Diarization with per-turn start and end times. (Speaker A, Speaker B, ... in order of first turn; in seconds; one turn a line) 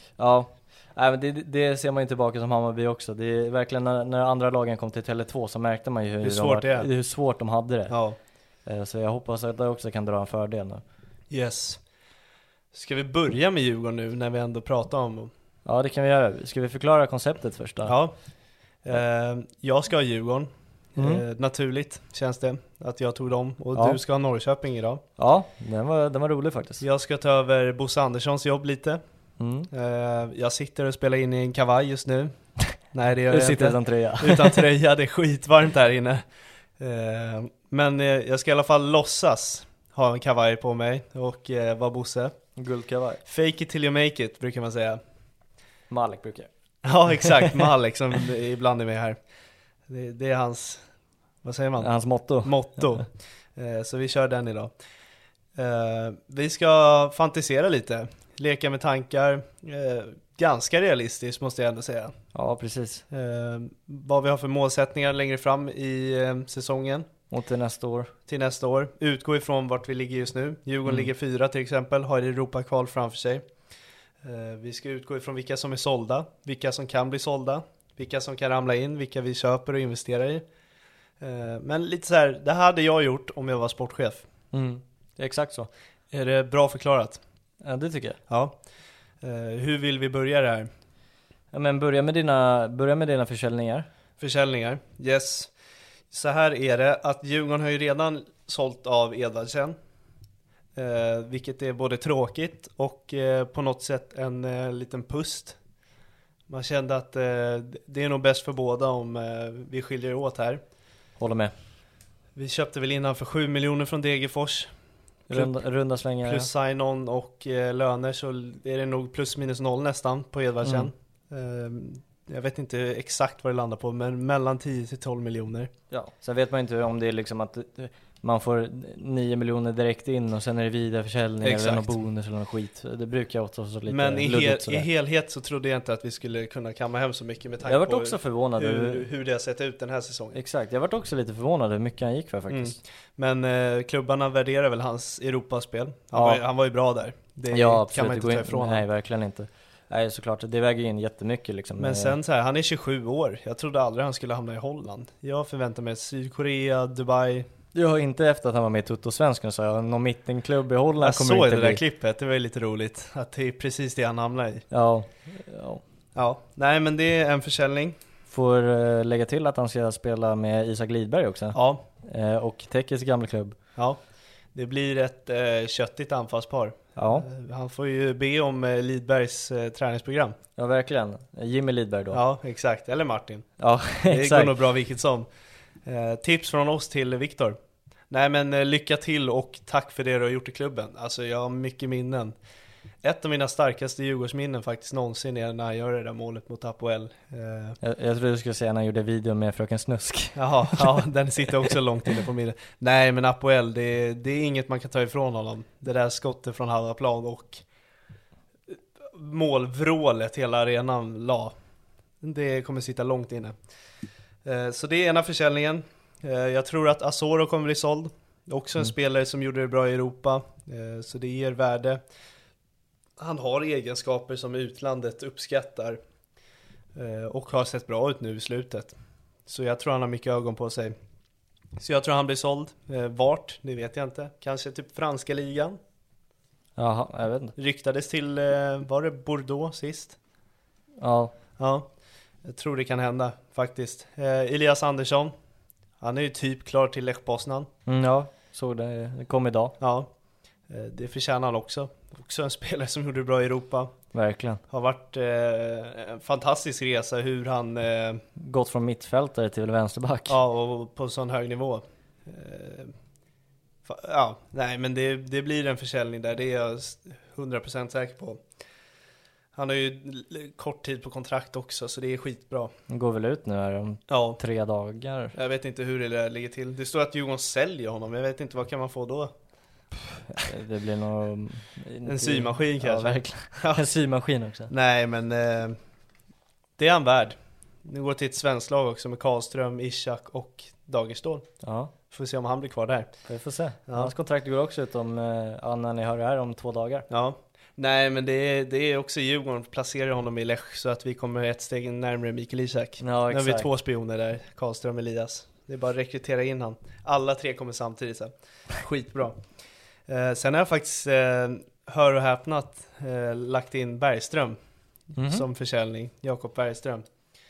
Speaker A: 0.2-8.0
Speaker B: 6.2-6.9
Speaker B: 7.9-8.2
Speaker A: 8.7-10.8
Speaker B: 11.3-11.8
Speaker B: 12.7-15.3
Speaker A: 15.7-17.9
Speaker B: 17.9-18.1
Speaker B: 18.8-25.0
Speaker A: 21.0-21.2
Speaker A: 23.8-24.0
Speaker A: 25.2-26.8
Speaker B: 26.8-29.0
Speaker A: 29.4-29.7
Speaker B: 29.7-32.3
Speaker B: 32.9-36.2
Speaker A: 33.3-34.7
Speaker B: 36.8-42.4
Speaker A: 42.6-43.2
Speaker B: 43.3-45.0
Speaker A: 45.9-46.5
Speaker B: 46.9-49.2
Speaker B: 49.9-50.8
Speaker B: 51.4-54.7
Speaker A: 51.8-52.6
Speaker B: 55.6-62.1
Speaker A: 62.3-63.0
Speaker B: 63.1-67.1
Speaker A: 67.3-68.1
Speaker B: 68.3-73.5
Speaker B: 74.2-80.4
Speaker B: 81.2-84.3
Speaker A: 84.5-85.7
Speaker B: 86.1-87.2
Speaker A: 87.6-88.2
Speaker B: 88.3-88.6
Speaker B: 89.2-90.7
Speaker A: 91.5-93.9
Speaker B: 94.2-95.5
Speaker B: 96.1-99.8
Speaker B: 100.8-105.6
Speaker B: 106.5-110.6
Speaker A: 111.2-111.5
Speaker B: 112.4-114.7
Speaker A: 115.3-116.5
Speaker B: 115.3-115.6
Speaker B: 116.2-125.7
Speaker A: 120.6-120.9
Speaker A: 125.9-134.9
Speaker B: 131.4-131.9
Speaker B: 133.9-140.4
Speaker A: 137.7-139.1
Speaker A: 140.3-142.8
Speaker B: 142.5-148.8
Speaker A: 146.1-146.4
Speaker A: 147.5-152.2
Speaker B: 151.8-157.5
Speaker A: 157.7-161.8
Speaker B: 161.0-164.7
Speaker A: 164.7-165.8
Speaker B: 166.2-168.0
Speaker A: 168.3-173.6
Speaker B: 171.5-171.8
Speaker B: 174.6-180.4
Speaker A: 177.0-177.3
Speaker A: 180.6-182.2
Speaker B: 182.1-183.5
Speaker A: 183.6-184.6
Speaker B: 184.0-185.3
Speaker B: 185.8-187.6
Speaker B: 188.1-192.3
Speaker B: 193.0-197.8
Speaker A: 197.8-201.1
Speaker B: 200.4-207.6
Speaker B: 209.0-211.5
Speaker B: 212.2-213.6
Speaker B: 214.4-222.0
Speaker B: 223.2-226.0
Speaker B: 226.9-228.9
Speaker B: 229.5-231.0
Speaker B: 231.8-235.8
Speaker A: 236.8-237.6
Speaker B: 237.6-240.2
Speaker A: 241.0-241.3
Speaker B: 241.6-241.9
Speaker B: 242.4-245.3
Speaker B: 246.0-247.7
Speaker A: 247.9-249.8
Speaker B: 249.8-250.1
Speaker B: 250.7-253.9
Speaker A: 254.1-254.6
Speaker B: 254.7-258.2
Speaker A: 258.4-260.4
Speaker B: 260.3-262.9
Speaker B: 263.9-268.4
Speaker B: 269.6-272.7
Speaker A: 272.9-275.4
Speaker B: 274.1-274.4
Speaker B: 275.3-279.3
Speaker A: 280.3-284.7
Speaker B: 282.1-283.9
Speaker B: 284.7-285.8
Speaker B: 286.8-291.5
Speaker A: 291.6-291.9
Speaker B: 292.1-293.1
Speaker A: 293.3-297.1
Speaker B: 293.9-294.1
Speaker B: 297.1-309.4
Speaker A: 303.0-303.7
Speaker B: 310.1-314.6
Speaker A: 315.2-315.5
Speaker B: 315.2-317.1